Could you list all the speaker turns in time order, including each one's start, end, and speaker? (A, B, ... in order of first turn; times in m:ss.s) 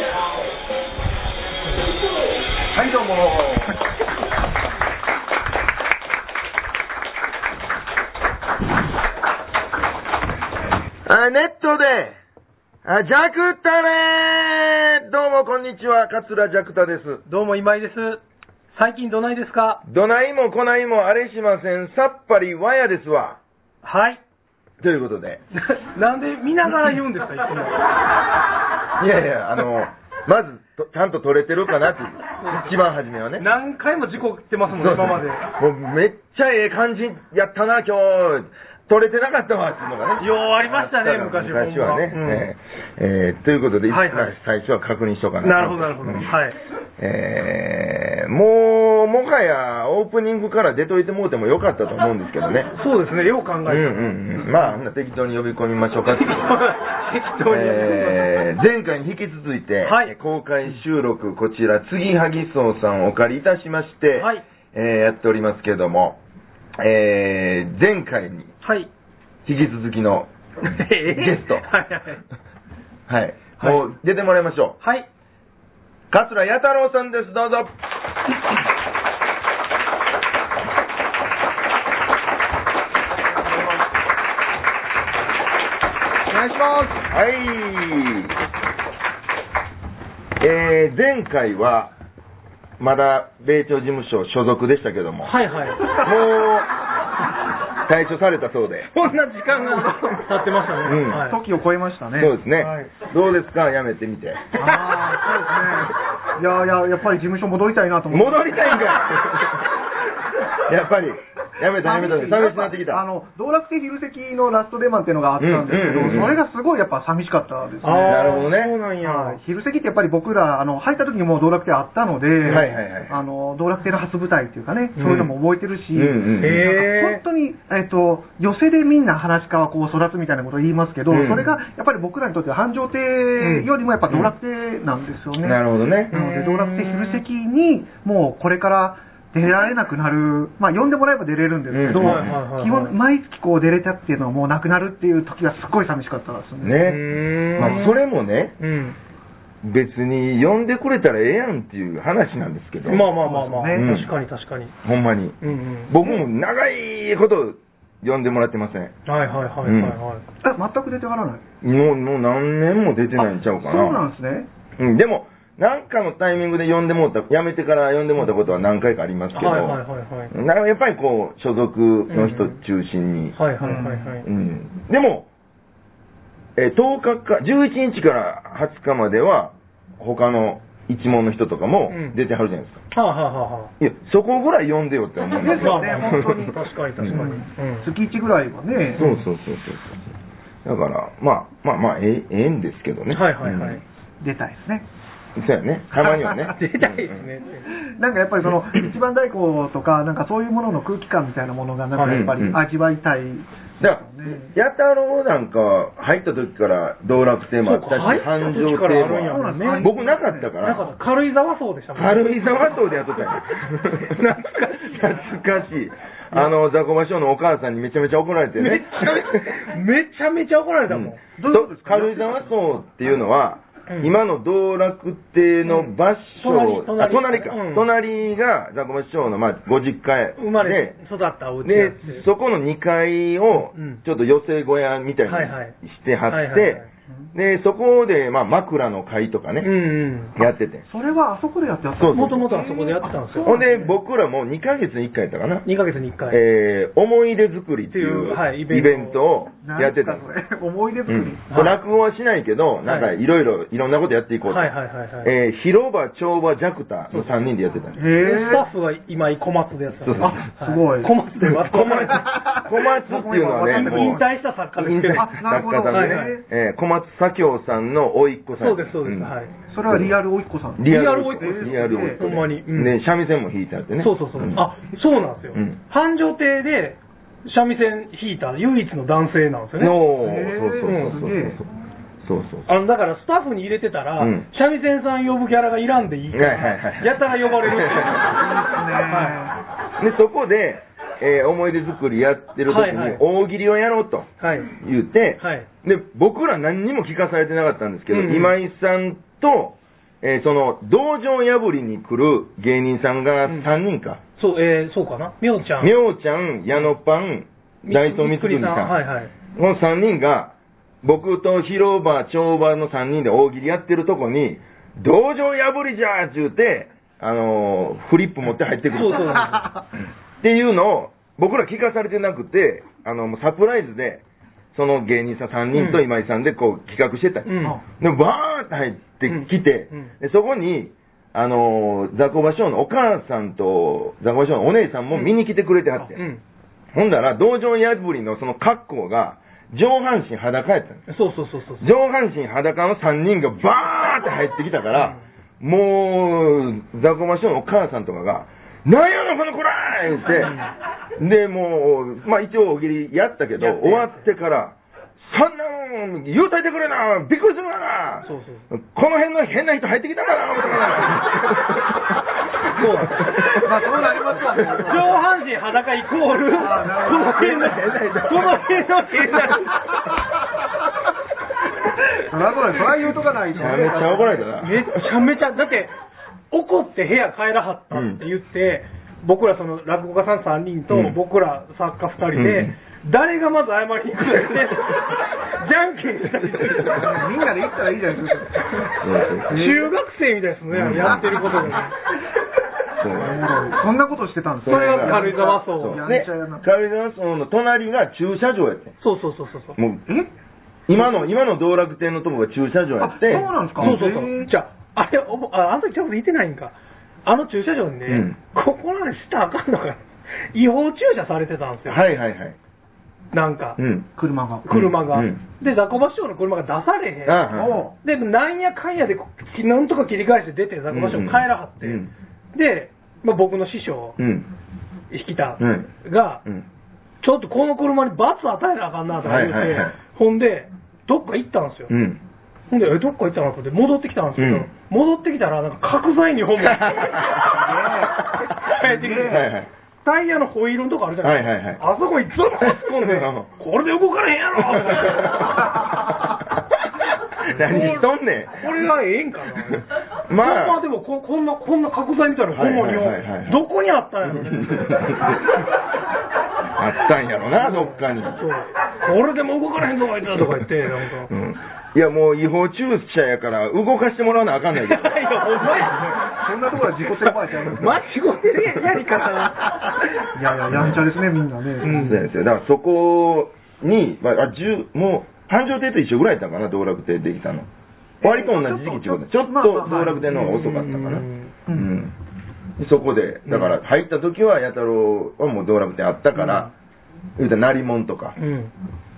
0:02.7-0:03.8 A
0:11.0-0:12.2 A
0:12.8-0:17.2 A
0:17.3-0:19.8 B
0:19.8-0:23.4 A
0:23.8-0:24.2 B
0:24.8-0:25.4 A
0:25.6-0:27.8 B
0:26.6-0:26.9 A
0:29.0-0:33.4 A
0:32.4-0:32.7 B
0:33.4-0:35.4 B
0:34.7-0:46.3 A
0:40.2-0:42.5 B
0:43.9-0:44.4 B
0:45.4-0:46.6 B
0:47.0-0:52.7 A
0:52.8-0:54.8 B
0:53.6-0:56.6 A
0:56.2-0:58.4 B
0:57.4-1:06.2 A
0:59.8-1:00.1 B
1:04.2-1:04.4 B
1:06.8-1:08.5 A
1:08.6-1:08.9 B
1:09.4-1:10.3 A
1:10.6-1:12.2 B
1:11.0-1:11.6 A
1:13.1-1:14.8 A
1:16.1-1:17.7 A
1:26.3-1:27.0 C
1:27.0-1:28.3 A
1:30.4-1:31.9 A
1:32.8-1:35.3 A
1:35.2-1:35.9 B
1:35.9-1:36.7 A
1:37.8-1:38.9 A
1:38.9-1:41.4 B
1:39.5-1:40.2 C
1:40.8-1:41.3 A
1:41.0-1:42.9 C
1:42.2-1:44.4 A
1:44.6-1:48.8 C
1:44.6-1:45.1 B
1:48.1-1:49.7 A
1:50.5-1:53.0 A
1:51.8-1:58.4 C
1:55.4-1:56.4 A
1:57.8-1:59.4 B
1:58.0-1:58.8 A
1:59.0-2:26.9 C
2:02.4-2:03.1 A
2:05.0-2:05.3 B
2:05.0-2:05.3 A
2:05.9-2:06.6 A
2:06.4-2:07.2 B
2:11.1-2:11.5 A
2:13.4-2:13.7 B
2:15.4-2:16.1 A
2:16.1-2:17.2 B
2:21.7-2:22.4 A
2:21.9-2:22.9 B
2:26.6-2:28.6 A
2:26.8-2:28.0 B
2:28.6-2:29.0 B
2:29.6-2:33.1 A
2:32.9-2:34.7 B
2:33.2-2:33.9 C
2:33.7-2:34.1 A
2:34.8-2:38.9 A
2:35.4-2:35.9 B
2:39.0-2:40.2 B
2:39.6-2:40.0 A
2:40.4-2:41.4 C
2:41.6-2:44.0 A
2:43.2-2:44.5 C
2:44.8-2:53.4 A
2:49.4-2:50.3 B
2:52.1-2:52.6 B
2:53.4-2:54.2 B
2:53.6-2:54.1 C
2:54.2-2:55.3 A
2:56.6-3:02.8 A
3:01.9-3:02.2 B
3:02.9-3:03.7 B
3:03.8-3:07.2 A
3:05.4-3:09.1 C
3:05.6-3:07.9 B
3:09.0-3:10.0 A
3:10.6-3:13.8 A
3:13.1-3:13.8 B
3:14.2-3:14.8 C
3:15.4-3:17.3 A
3:16.0-3:16.5 C
3:16.4-3:17.7 B
3:17.7-3:24.5 C
3:22.0-3:22.2 B
3:22.1-3:22.6 A
3:23.8-3:30.9 A
3:27.6-3:29.9 B
3:29.3-3:30.5 C
3:30.6-3:32.8 B
3:31.9-3:39.5 A
3:33.8-3:35.3 B
3:38.6-3:41.2 B
3:40.9-3:50.9 A
3:41.4-3:42.5 C
3:43.9-3:44.2 B
3:46.4-3:47.9 B
3:50.4-3:52.2 B
3:51.6-3:59.7 A
3:53.7-3:54.0 B
3:55.3-3:55.7 B
3:56.3-3:56.8 B
3:59.6-4:00.4 B
4:00.3-4:00.8 A
4:00.8-4:03.9 C
4:02.0-4:02.6 A
4:02.1-4:03.6 B
4:03.4-4:05.6 A
4:05.6-4:06.4 B
4:06.3-4:10.2 A
4:07.9-4:09.2 B
4:09.6-4:11.5 C
4:11.1-4:18.0 A
4:11.5-4:11.8 B
4:12.8-4:13.1 B
4:14.5-4:15.3 B
4:17.1-4:17.4 B
4:18.0-4:18.6 C
4:18.2-4:22.3 B
4:20.0-4:20.5 A
4:20.3-4:21.1 C
4:21.4-4:24.2 A
4:22.1-4:24.2 C
4:23.6-4:25.3 B
4:24.8-4:29.3 A
4:25.1-4:26.4 C
4:25.9-4:26.4 B
4:28.6-4:29.5 B
4:29.7-4:32.2 C
4:29.9-4:30.1 A
4:30.8-4:34.7 A
4:30.8-4:32.9 B
4:34.0-4:40.0 B
4:35.5-4:35.8 A
4:39.8-4:41.6 A
4:40.2-4:41.6 C
4:40.8-4:41.2 B
4:42.2-4:42.7 A
4:42.7-4:48.4 B
4:44.2-4:44.5 A
4:46.3-4:48.4 A
4:48.3-4:49.6 C
4:49.0-4:49.4 B
4:50.0-5:04.2 A
4:52.7-4:53.2 B
4:54.4-4:54.7 B
4:55.4-4:55.7 B
4:58.1-4:58.5 B
5:04.4-5:05.9 B
5:05.8-5:09.0 A
5:07.8-5:09.3 B
5:09.5-5:19.6 A
5:18.9-5:19.7 B
5:20.4-5:24.2 A
5:24.7-5:36.2 A
5:25.7-5:26.0 B
5:27.4-5:27.8 B
5:29.3-5:30.1 B
5:36.0-5:36.4 B
5:36.9-5:41.0 A
5:41.1-5:41.9 B
5:41.8-5:50.6 A
5:50.4-5:50.7 B
5:51.2-6:03.7 A
5:53.6-5:54.2 B
5:58.2-5:58.6 B
6:02.7-6:03.5 B
6:03.5-6:05.2 C
6:04.4-6:04.9 A
6:04.8-6:09.8 B
6:06.6-6:07.7 C
6:07.3-6:09.8 A
6:12.2-6:14.5 C
6:13.5-6:15.1 A
6:14.6-6:15.9 B
6:16.5-6:27.4 B
6:17.9-6:18.2 A
6:20.9-6:21.2 A
6:22.3-6:22.7 A
6:26.6-6:27.0 A
6:26.9-6:28.9 C
6:28.9-6:29.7 A
6:29.5-6:29.9 C
6:29.5-6:31.9 B
6:30.7-6:31.8 A
6:32.9-6:33.4 A
6:33.1-6:36.6 C
6:34.6-6:39.0 A
6:34.7-6:36.0 B
6:39.0-6:39.8 B
6:39.8-6:40.0 A
6:40.9-6:44.0 A
6:43.0-6:44.5 C
6:43.8-6:46.7 B
6:47.2-6:52.0 B
6:48.1-6:48.4 A
6:51.8-6:52.6 A
6:53.3-6:53.8 B
6:53.8-6:54.1 A
6:54.2-6:54.7 C
6:54.6-6:57.5 B
6:54.7-6:55.4 A
6:57.2-6:57.8 A
6:57.5-6:57.9 C
6:58.0-7:04.2 B
7:00.9-7:02.1 A
7:04.2-7:04.5 A
7:05.1-7:06.4 B
7:05.6-7:05.9 A
7:07.2-7:11.9 B
7:09.2-7:09.9 A
7:11.9-7:12.2 A
7:12.7-7:17.5 B
7:14.4-7:14.7 A
7:16.6-7:17.5 A
7:17.4-7:19.5 C
7:18.6-7:19.4 B
7:19.2-7:19.7 A
7:20.0-7:25.8 B
7:21.2-7:21.8 A
7:22.6-7:23.5 A
7:24.6-7:26.3 A
7:27.4-7:28.7 A
7:27.5-7:35.4 B
7:29.7-7:30.8 A
7:32.5-7:33.6 A
7:34.2-7:35.6 A
7:36.7-7:38.4 A
7:37.5-7:41.3 B
7:41.3-7:45.8 A
7:44.8-7:46.4 B
7:45.9-7:48.0 C
7:47.2-7:50.2 B
7:50.2-7:52.2 C
7:50.7-7:51.0 A
7:51.8-7:52.2 B
7:51.9-7:57.7 A
7:58.2-8:02.1 A
7:58.2-8:00.3 C
8:00.0-8:01.5 B
8:02.8-8:06.7 A
8:03.5-8:03.7 B
8:06.4-8:06.7 B
8:07.4-8:08.3 A
8:08.4-8:08.7 B